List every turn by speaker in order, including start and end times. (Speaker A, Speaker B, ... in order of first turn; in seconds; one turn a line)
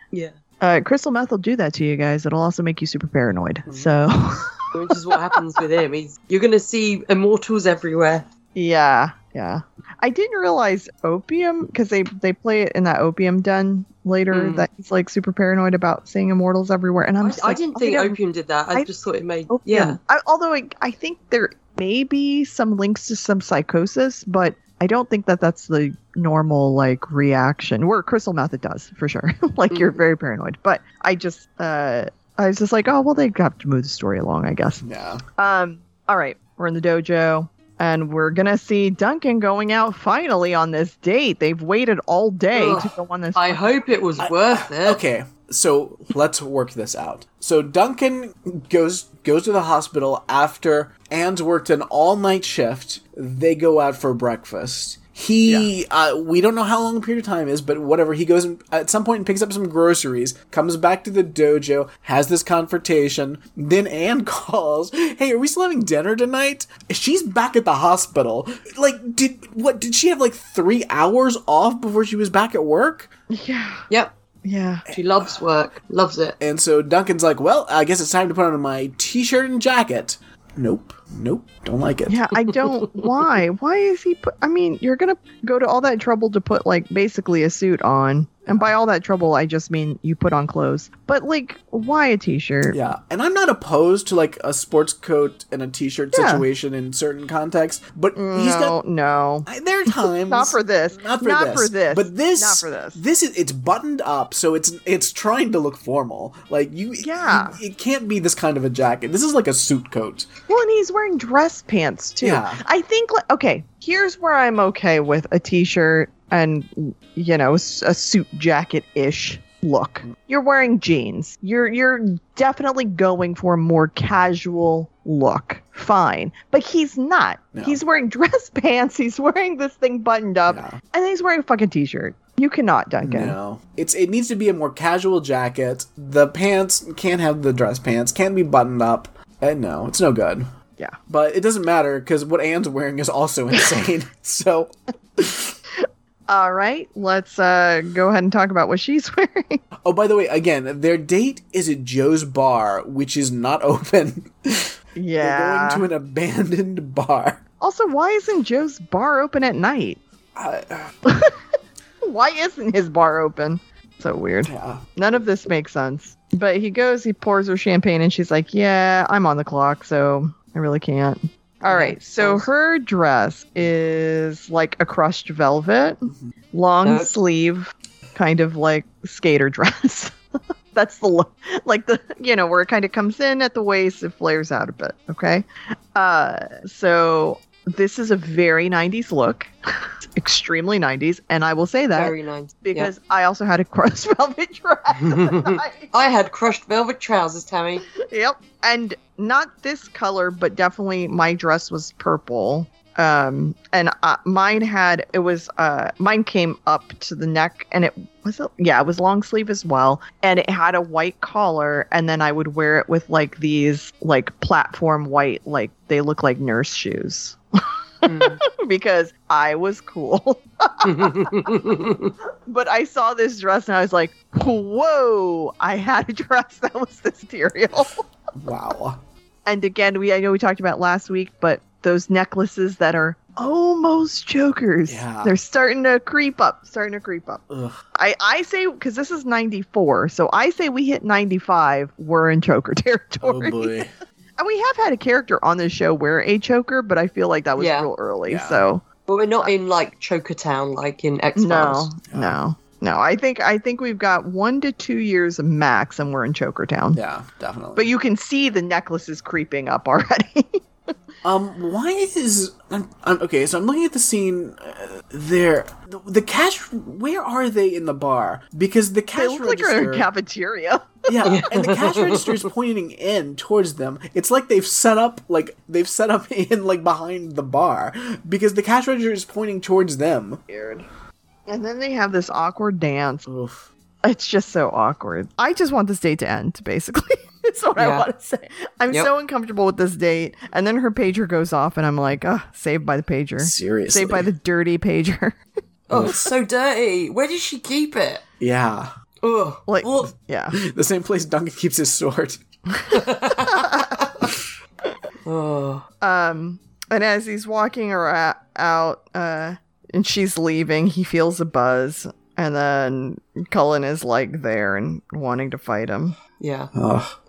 Speaker A: 0.6-5.2
Speaker B: 4.7-8.3
Speaker A: 8.6-18.2
Speaker B: 14.3-14.7
Speaker B: 17.2-20.0
Speaker A: 19.5-34.8
Speaker B: 29.7-30.0
Speaker C: 34.8-35.2
Speaker A: 35.4-43.6
Speaker B: 42.5-45.0
Speaker C: 44.2-73.1
Speaker A: 73.3-73.8
Speaker A: 74.5-74.8
Speaker C: 74.9-75.3
Speaker B: 74.9-76.4
Speaker C: 76.4-82.3
Speaker A: 82.1-92.8
Speaker C: 92.7-98.8
Speaker A: 96.1-96.5
Speaker A: 98.1-103.0
Speaker C: 99.5-110.3
Speaker A: 107.0-107.6
Speaker A: 110.5-133.4
Speaker C: 112.2-112.6
Speaker C: 130.5-130.8
Speaker C: 133.0-140.5
Speaker C: 141.1-145.5
Speaker A: 145.8-149.6
Speaker C: 149.8-157.4
Speaker A: 154.9-155.9
Speaker A: 157.6-160.0
Speaker C: 160.4-160.9
Speaker A: 161.1-161.3
Speaker A: 162.0-180.1
Speaker C: 164.4-164.8
Speaker B: 171.7-172.4
Speaker B: 176.8-177.1
Speaker A: 180.7-195.9
Speaker B: 191.9-192.9
Speaker B: 195.0-197.8
Speaker A: 197.9-221.7
Speaker B: 218.1-218.4
Speaker B: 220.8-222.1
Speaker A: 222.5-228.0
Speaker C: 228.4-229.0
Speaker A: 229.4-237.4
Speaker C: 234.9-235.3
Speaker C: 237.5-237.8
Speaker A: 237.9-243.8
Speaker C: 243.2-243.9
Speaker A: 244.4-248.8
Speaker B: 247.6-247.9
Speaker C: 248.3-248.6
Speaker B: 249.1-251.9
Speaker A: 251.4-257.0
Speaker C: 252.1-252.4
Speaker C: 256.9-257.9
Speaker A: 257.8-260.6
Speaker C: 261.2-270.1
Speaker A: 269.1-271.2
Speaker C: 271.1-280.4
Speaker B: 271.2-272.4
Speaker A: 280.5-280.8
Speaker A: 281.5-283.2
Speaker C: 283.2-283.7
Speaker A: 284.0-295.4
Speaker B: 287.8-288.1
Speaker C: 293.4-294.3
Speaker B: 295.9-298.2
Speaker C: 295.9-296.2
Speaker C: 298.4-298.9
Speaker B: 299.2-300.1
Speaker A: 299.7-300.6
Speaker C: 300.5-302.4
Speaker A: 302.8-304.1
Speaker B: 302.9-304.1
Speaker B: 305.2-305.8
Speaker A: 306.0-316.2
Speaker B: 316.4-316.7
Speaker C: 316.7-317.1